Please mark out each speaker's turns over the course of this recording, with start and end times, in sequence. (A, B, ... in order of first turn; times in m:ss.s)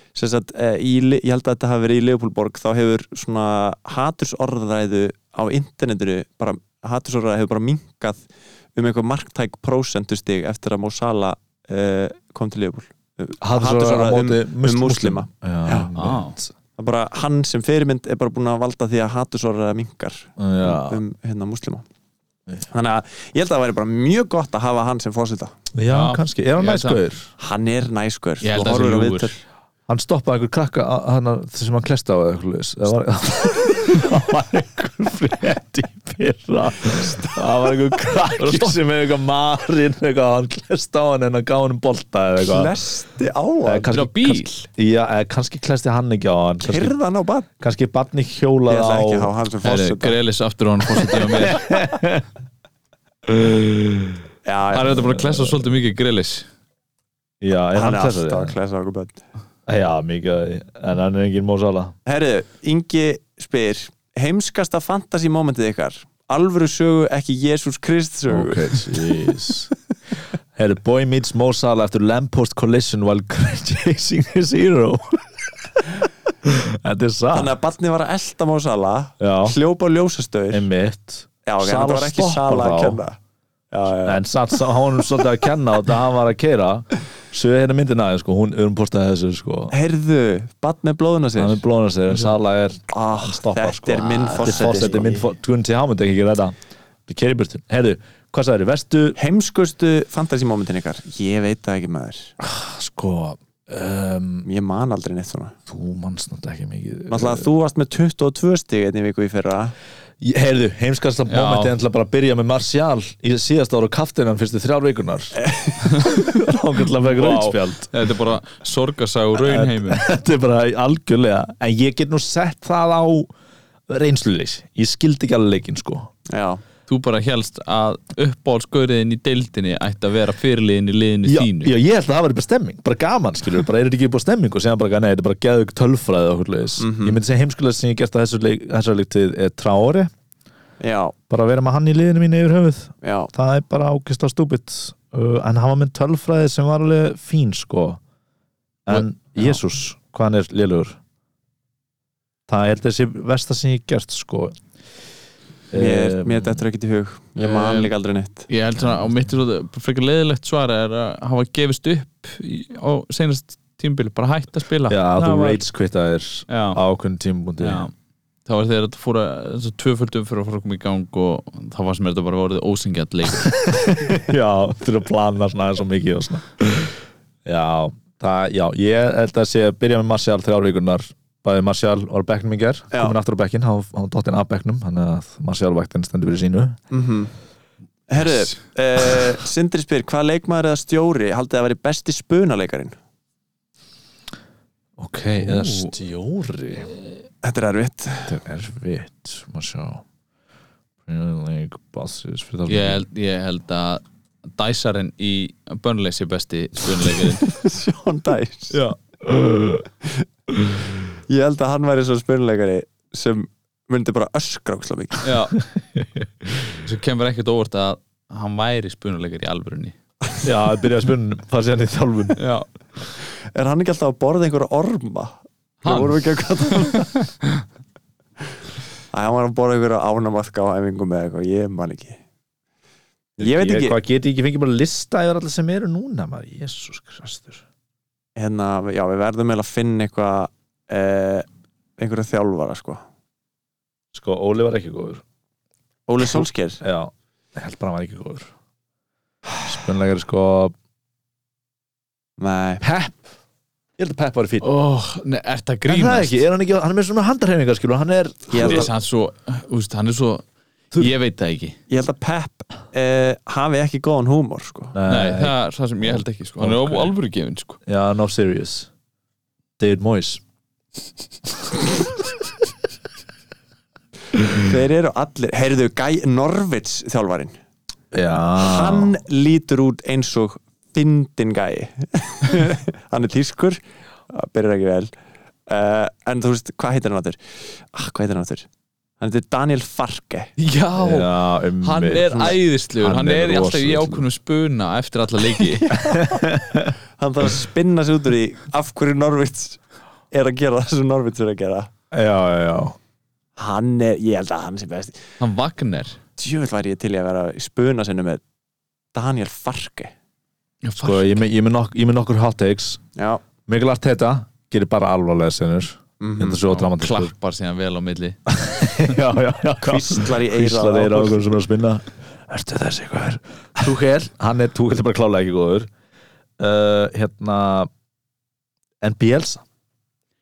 0:00.1-0:15.9 A
0:13.4-0:16.5 B
0:15.9-0:16.4 C
0:16.8-0:21.8 A
0:20.4-0:21.0 B
0:22.7-0:25.5 A
0:25.7-0:27.3 B
0:25.9-0:27.0 C
0:27.4-0:29.4 A
0:28.4-0:29.3 C
0:29.9-0:42.7 B
0:36.8-0:38.8 A
0:42.4-0:43.9 A
0:43.6-0:46.9 B
0:43.9-0:44.6 C
0:46.6-0:47.5 A
0:47.6-0:49.3 B
0:48.7-0:50.2 A
0:49.6-0:51.7 C
0:51.0-0:52.3 B
0:53.3-0:54.2 B
0:54.4-0:55.0 A
0:54.7-0:56.4 C
0:54.9-0:55.7 B
0:57.4-0:58.6 B
0:57.7-0:59.2 A
0:59.7-1:01.9 B
1:02.0-1:09.1 A
1:08.3-1:09.7 B
1:10.6-1:15.7 B
1:16.4-1:17.5 B
1:17.3-1:20.7 A
1:19.2-1:19.6 B
1:20.5-1:23.0 B
1:21.4-1:23.2 A
1:23.7-1:25.2 A
1:24.0-1:29.7 B
1:29.7-1:31.6 A
1:31.4-1:36.6 B
1:32.9-1:35.2 A
1:37.1-1:39.2 B
1:39.2-1:42.3 A
1:42.4-1:44.5 B
1:44.4-1:45.6 A
1:45.7-1:47.5 B
1:47.1-1:49.7 A
1:50.2-1:55.3 B
1:51.3-1:51.7 C
1:55.4-1:56.1 A
1:55.9-1:56.3 C
1:56.0-1:57.9 B
1:57.0-2:00.0 C
1:59.4-2:03.3 B
2:03.9-2:06.1 B
2:06.3-2:06.6 A
2:06.9-2:11.7 C
2:11.2-2:20.1 B
2:16.8-2:17.2 A
2:20.8-2:21.1 A
2:21.3-2:28.0 B
2:23.0-2:23.3 A
2:28.8-2:31.0 B
2:28.9-2:29.6 C
2:32.5-2:34.6 B
2:35.7-2:36.6 B
2:35.7-2:38.5 A
2:37.4-2:37.9 C
2:38.5-2:45.6 C
2:44.9-2:47.9 B
2:46.5-2:46.8 C
2:47.6-2:47.9 C
2:48.4-2:53.6 C
2:53.4-3:06.8 B
3:06.9-3:07.3 A
3:08.1-3:12.9 A
3:15.0-3:16.9 B
3:15.4-3:15.9 C
3:17.4-3:18.4 A
3:18.3-3:20.0 B
3:21.0-3:23.0 B
3:22.7-3:24.0 C
3:24.6-3:27.5 C
3:27.5-3:28.8 A
3:29.2-3:29.9 B
3:31.3-3:35.3 A
3:35.2-3:35.6 C
3:35.8-3:36.8 B
3:36.8-3:40.0 C
3:40.4-3:42.4 B
3:42.4-3:42.6 C
3:43.5-3:47.1 A
3:45.8-3:46.2 C
3:46.8-3:47.6 C
3:49.1-3:52.2 A
3:53.4-3:57.6 B
3:53.4-3:54.0 A
3:58.4-4:01.4 A
4:02.0-4:03.0 A
4:04.1-4:05.2 B
4:06.1-4:06.8 A
4:06.4-4:08.5 B
4:09.6-4:10.7 B
4:12.4-4:12.8 A
4:12.8-4:13.2 B
4:14.0-4:14.6 B
4:14.6-4:16.4 C
4:15.9-4:18.9 B
4:18.5-4:18.9 A
4:18.5-4:21.8 C
4:21.9-4:25.0 A
4:24.9-4:27.1 B
4:25.1-4:27.8 C
4:27.8-4:28.9 B
4:29.8-4:30.4 B
4:34.4-4:37.5 A
4:38.1-4:39.1 B
4:38.6-4:45.1 A
4:45.7-4:48.7 A
4:49.2-4:50.5 A
4:50.6-4:56.0 C
4:51.0-4:54.3 B
4:52.3-4:52.6 A
4:55.6-4:56.5 A
4:56.0-4:56.9 B
4:57.2-5:01.9 A
5:02.1-5:03.0 B
5:03.6-5:05.2 A
5:05.4-5:06.2 C
5:06.4-5:08.4 A
5:09.1-5:10.1 A
5:10.8-5:11.4 C
5:11.0-5:13.0 B
5:13.2-5:13.4 A
5:13.7-5:17.3 B
5:16.2-5:16.6 A
5:16.7-5:18.4 C
5:18.5-5:25.9 B
5:19.8-5:21.6 A
5:26.6-5:27.9 B
5:29.0-5:29.6 B